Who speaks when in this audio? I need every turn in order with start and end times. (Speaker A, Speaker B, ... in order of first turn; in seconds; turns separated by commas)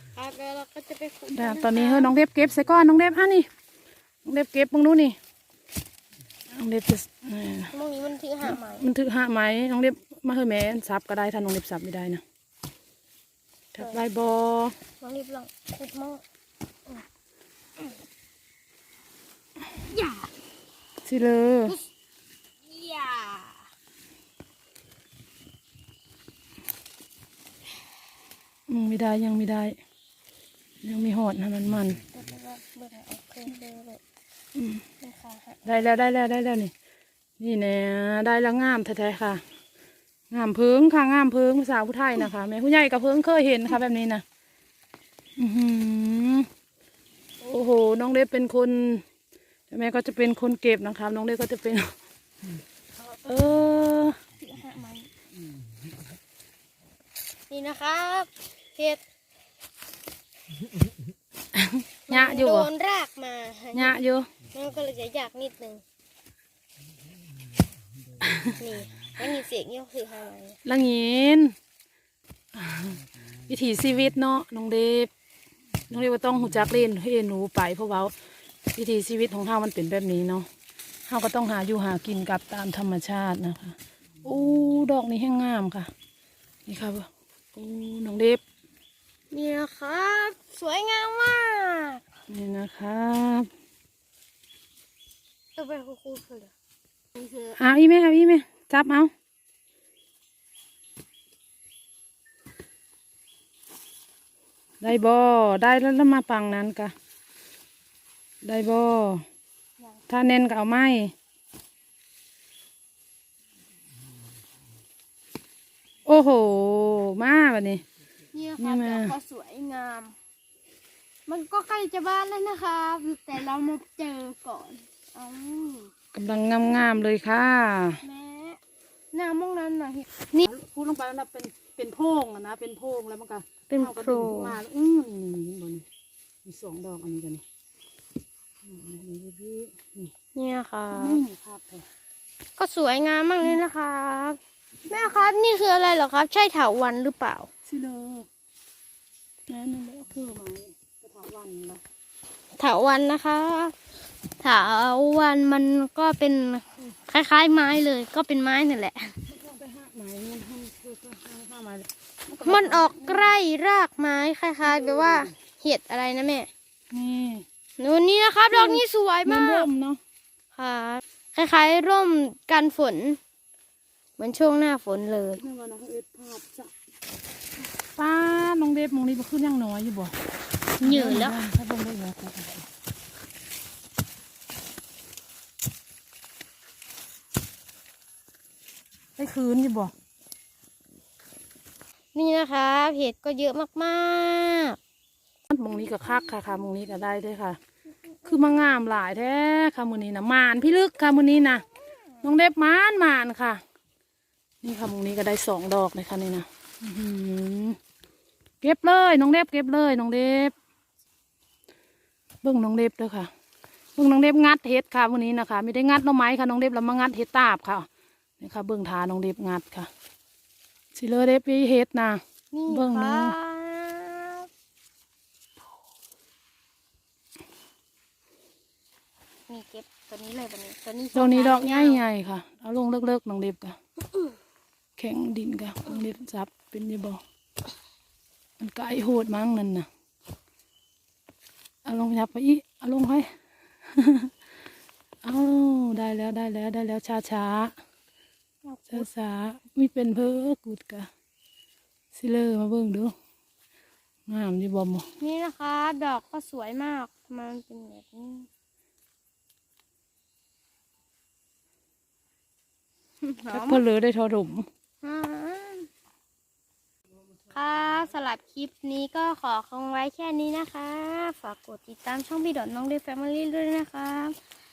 Speaker A: 0.1-2.1, Speaker B: 1.3-3.5, Speaker B: 4.2-5.2, Speaker B: 6.5-7.7, Speaker A: 7.7-8.9, Speaker B: 8.4-12.2, Speaker B: 13.8-14.8, Speaker A: 15.0-16.2, Speaker A: 19.9-20.3, Speaker B: 21.0-21.8, Speaker A: 22.7-23.6, Speaker B: 28.7-29.8, Speaker B: 30.8-32.0, Speaker A: 32.1-34.0, Speaker B: 34.5-34.8, Speaker A: 35.0-35.8, Speaker B: 35.6-36.7, Speaker B: 37.4-39.4, Speaker B: 40.3-44.2, Speaker B: 45.4-46.5, Speaker B: 47.4-49.0, Speaker B: 49.7-51.9, Speaker B: 53.0-54.2, Speaker A: 54.4-55.1, Speaker A: 57.5-59.0, Speaker B: 61.5-62.7, Speaker A: 62.1-64.0, Speaker B: 63.7-64.3, Speaker A: 64.5-65.8, Speaker B: 68.2-68.5, Speaker A: 68.5-70.6, Speaker B: 70.6-71.5, Speaker B: 72.5-75.1, Speaker B: 75.9-78.1, Speaker B: 78.8-80.5, Speaker B: 81.1-85.9, Speaker B: 86.7-88.4, Speaker A: 89.3-92.0, Speaker B: 92.3-93.5, Speaker A: 95.5-96.5, Speaker A: 97.1-97.6, Speaker B: 97.6-99.1, Speaker B: 104.8-106.9, Speaker B: 108.4-109.2, Speaker B: 110.1-111.1, Speaker B: 116.0-117.8, Speaker A: 118.3-120.1, Speaker B: 118.6-119.1, Speaker A: 121.3-125.9, Speaker B: 126.1-128.0, Speaker A: 128.0-128.6, Speaker A: 129.1-130.5, Speaker B: 130.4-135.9, Speaker A: 133.7-134.6, Speaker B: 136.4-137.4, Speaker B: 138.6-140.1, Speaker A: 140.3-141.2, Speaker B: 140.9-141.8, Speaker A: 142.6-147.5, Speaker B: 147.7-148.3, Speaker B: 149.5-151.8, Speaker A: 152.6-153.8, Speaker A: 154.4-159.1, Speaker B: 159.3-163.3, Speaker A: 162.4-166.5, Speaker B: 164.6-165.3, Speaker B: 166.9-167.4, Speaker A: 167.8-169.7, Speaker B: 168.5-170.0, Speaker A: 170.5-173.2, Speaker A: 174.2-175.4, Speaker B: 175.4-176.7, Speaker B: 178.0-180.1, Speaker B: 180.8-182.7, Speaker A: 180.8-181.4, Speaker B: 189.2-189.9, Speaker A: 192.1-194.8, Speaker B: 195.5-197.6, Speaker B: 198.2-201.6, Speaker B: 202.2-203.6, Speaker B: 204.6-207.8, Speaker B: 208.6-210.5, Speaker B: 212.4-213.3, Speaker B: 214.0-217.9, Speaker B: 218.4-219.9, Speaker B: 220.9-223.4, Speaker A: 222.5-224.5, Speaker A: 229.5-232.0, Speaker B: 231.1-233.8, Speaker B: 235.0-237.2, Speaker B: 238.6-239.9, Speaker B: 241.8-243.3, Speaker B: 243.9-244.3, Speaker B: 245.2-247.8, Speaker A: 248.6-249.1, Speaker B: 248.9-251.1, Speaker B: 252.1-253.1, Speaker B: 254.3-255.1, Speaker A: 255.2-258.5, Speaker A: 263.2-263.8, Speaker B: 263.5-264.6, Speaker A: 265.0-265.9, Speaker A: 267.5-274.4